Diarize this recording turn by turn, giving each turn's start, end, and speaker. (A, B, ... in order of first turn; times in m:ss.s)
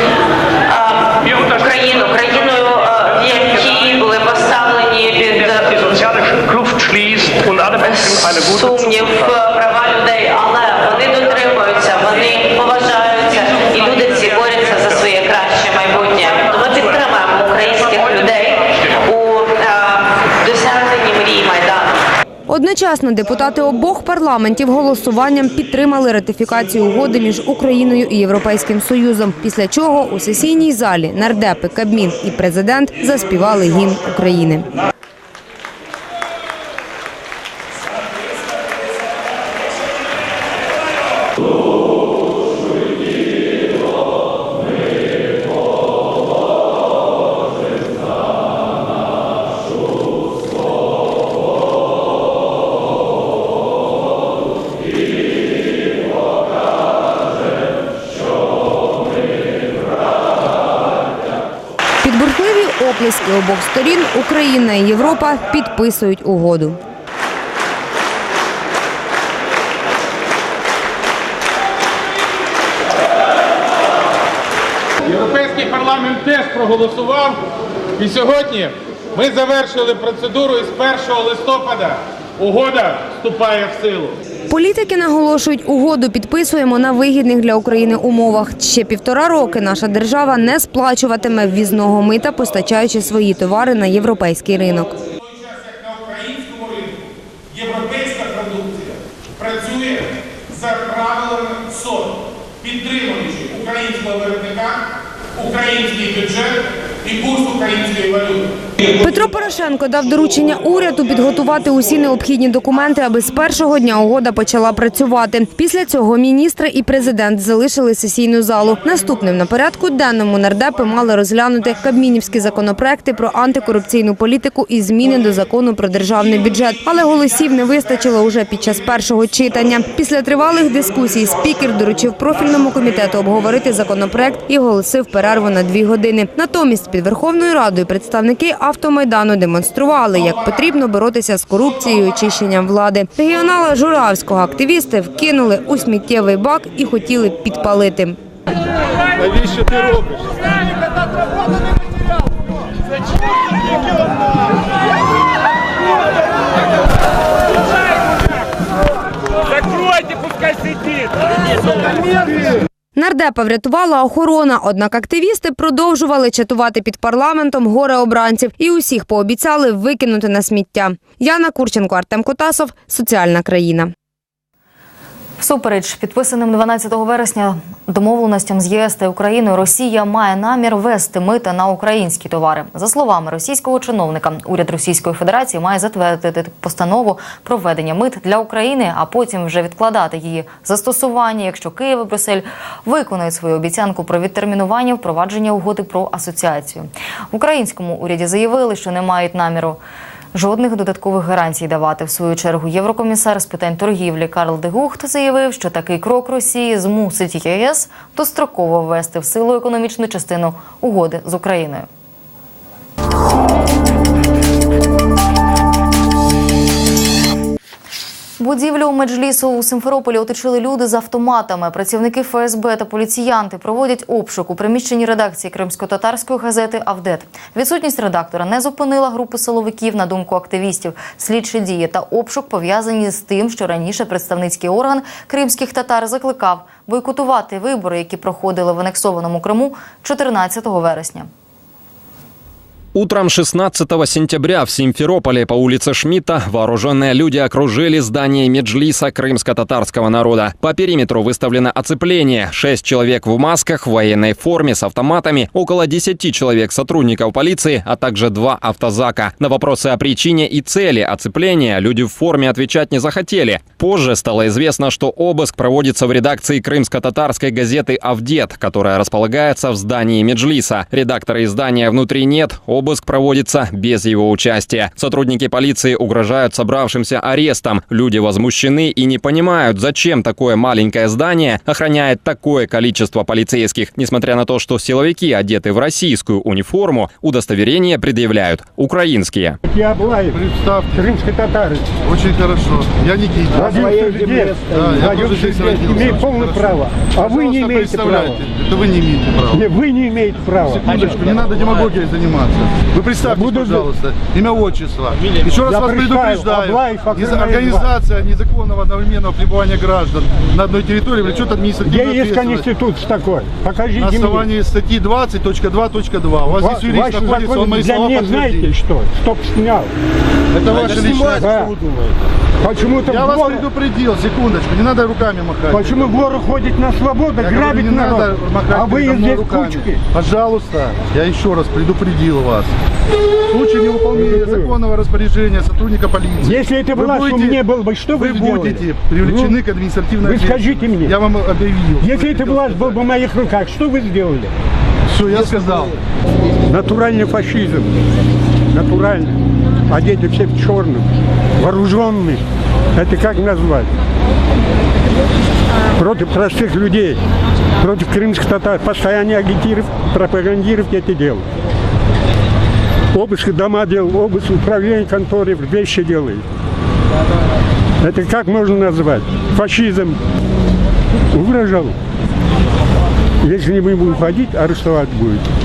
0:00.7-0:21.9 A
0:22.5-0:34.7 B
1:02.0-1:06.8 B
1:15.0-1:17.4 C
1:18.0-1:24.2 C
1:24.5-1:35.0 B
1:35.2-1:44.8 C
1:45.4-1:48.5 C
1:49.0-2:28.2 B
2:29.3-2:29.9 D
2:43.0-2:53.9 B
2:55.4-3:19.8 E
3:20.3-3:31.9 E
3:38.4-4:01.3 E
4:02.9-4:49.6 F
4:49.6-4:50.4 G
4:50.3-4:51.1 D
4:50.9-4:51.9 G
4:52.0-4:59.7 D
4:53.5-4:58.5 G
4:59.5-5:01.3 G
5:00.6-5:12.7 D
5:03.2-5:03.9 G
5:05.5-5:07.9 G
5:11.8-5:14.5 G
5:14.0-5:18.7 D
5:16.6-5:19.9 G
5:20.5-5:22.1 D
5:20.7-5:21.8 G
5:22.6-5:23.7 G
5:23.0-5:26.1 D
5:25.7-5:30.0 G
5:27.4-5:32.7 D
5:33.5-5:43.0 D
5:34.1-5:34.8 G
5:36.4-5:39.6 G
5:40.2-5:41.2 G
5:42.0-5:44.5 G
5:45.1-5:45.9 D
5:45.3-5:45.8 G
5:46.7-5:48.0 G
5:48.7-5:51.1 G
5:51.6-5:52.4 G
5:53.0-5:53.9 G
5:56.0-5:57.2 G
5:57.8-6:01.4 G
6:03.1-6:06.4 G
6:08.0-6:10.2 G
6:11.3-6:12.0 G
6:13.4-6:15.4 G